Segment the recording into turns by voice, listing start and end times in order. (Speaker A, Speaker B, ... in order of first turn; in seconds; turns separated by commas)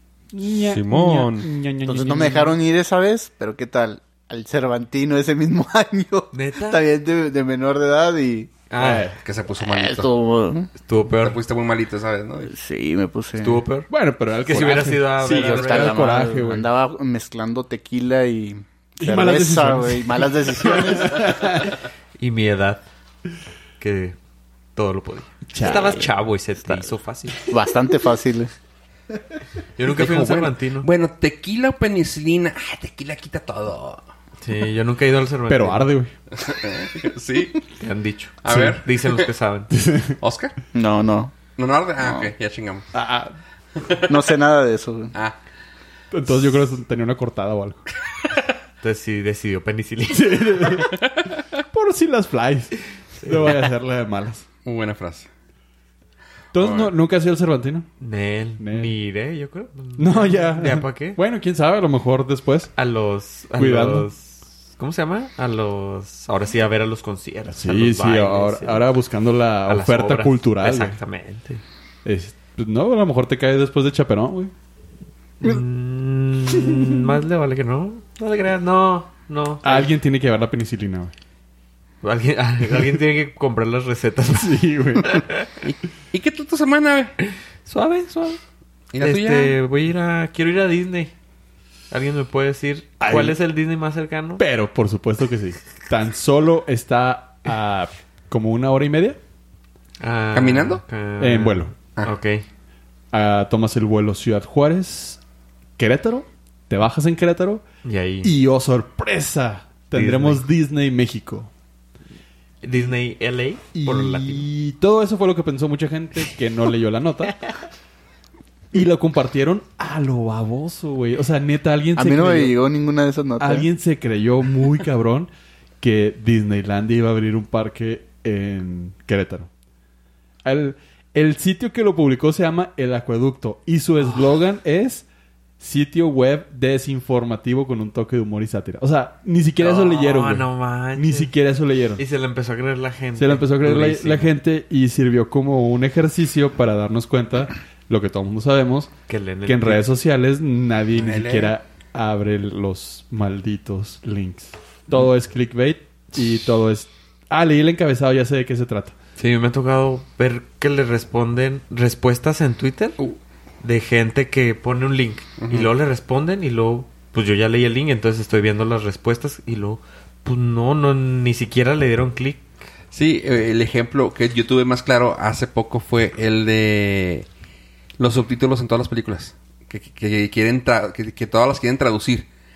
Speaker A: 0.3-2.6, Speaker B: 0.7-1.5, Speaker C: 1.9-8.5, Speaker D: 6.3-6.8, Speaker D: 8.7-9.1, Speaker A: 8.8-9.2, Speaker B: 9.2-10.1, Speaker C: 9.6-10.7, Speaker D: 10.8-11.4, Speaker B: 11.1-12.5, Speaker C: 12.4-13.7, Speaker D: 13.4-13.9, Speaker A: 13.9-16.7, Speaker D: 14.4-16.1, Speaker C: 14.5-21.4, Speaker A: 19.0-21.8, Speaker D: 22.2-22.8, Speaker D: 23.8-24.2, Speaker D: 24.8-27.5, Speaker A: 25.5-26.1, Speaker C: 27.4-28.5, Speaker D: 29.8-30.9, Speaker B: 29.8-34.0, Speaker D: 34.4-35.9, Speaker A: 35.5-36.1, Speaker B: 36.3-37.6, Speaker D: 37.8-39.7, Speaker B: 38.4-38.9, Speaker A: 38.5-38.8, Speaker A: 39.7-40.2, Speaker B: 40.2-40.5, Speaker C: 40.7-41.4, Speaker B: 41.5-42.9, Speaker C: 42.0-42.3, Speaker A: 42.9-43.3, Speaker B: 43.8-44.1, Speaker C: 44.0-45.1, Speaker A: 46.1-47.8, Speaker D: 48.8-50.9, Speaker A: 50.1-50.9, Speaker B: 50.9-51.4, Speaker A: 51.7-54.5, Speaker D: 53.2-53.6, Speaker B: 54.6-55.3, Speaker A: 56.5-57.9, Speaker B: 56.5-56.9, Speaker D: 58.0-61.2, Speaker A: 58.6-58.9, Speaker A: 60.0-62.7, Speaker D: 62.8-68.8, Speaker A: 63.6-64.1, Speaker A: 67.5-71.0, Speaker D: 69.7-71.6, Speaker A: 72.0-74.5, Speaker D: 75.4-79.9, Speaker A: 76.5-77.1, Speaker A: 79.6-81.1, Speaker D: 82.0-85.5, Speaker A: 84.3-85.2, Speaker B: 85.6-87.2, Speaker D: 87.2-88.4, Speaker B: 88.9-89.6, Speaker D: 89.0-91.1, Speaker D: 91.9-94.4, Speaker A: 93.0-93.4, Speaker A: 94.4-99.2, Speaker D: 100.0-102.5, Speaker B: 100.3-100.8, Speaker A: 101.2-101.7, Speaker A: 103.1-105.2, Speaker A: 105.8-107.6, Speaker D: 107.8-108.3, Speaker A: 108.2-111.5, Speaker D: 109.9-110.4, Speaker D: 112.6-114.5, Speaker A: 113.7-117.4, Speaker A: 118.7-122.6, Speaker C: 122.0-123.7, Speaker A: 123.4-125.3, Speaker A: 125.8-129.5, Speaker A: 130.4-135.1, Speaker A: 135.6-142.0, Speaker D: 139.6-141.3, Speaker D: 142.0-144.3, Speaker A: 143.2-148.9, Speaker D: 149.1-149.9, Speaker A: 149.4-158.9, Speaker B: 150.9-151.6, Speaker D: 159.2-163.0, Speaker D: 163.6-172.5, Speaker B: 165.4-165.7, Speaker B: 172.9-177.3, Speaker B: 178.0-182.3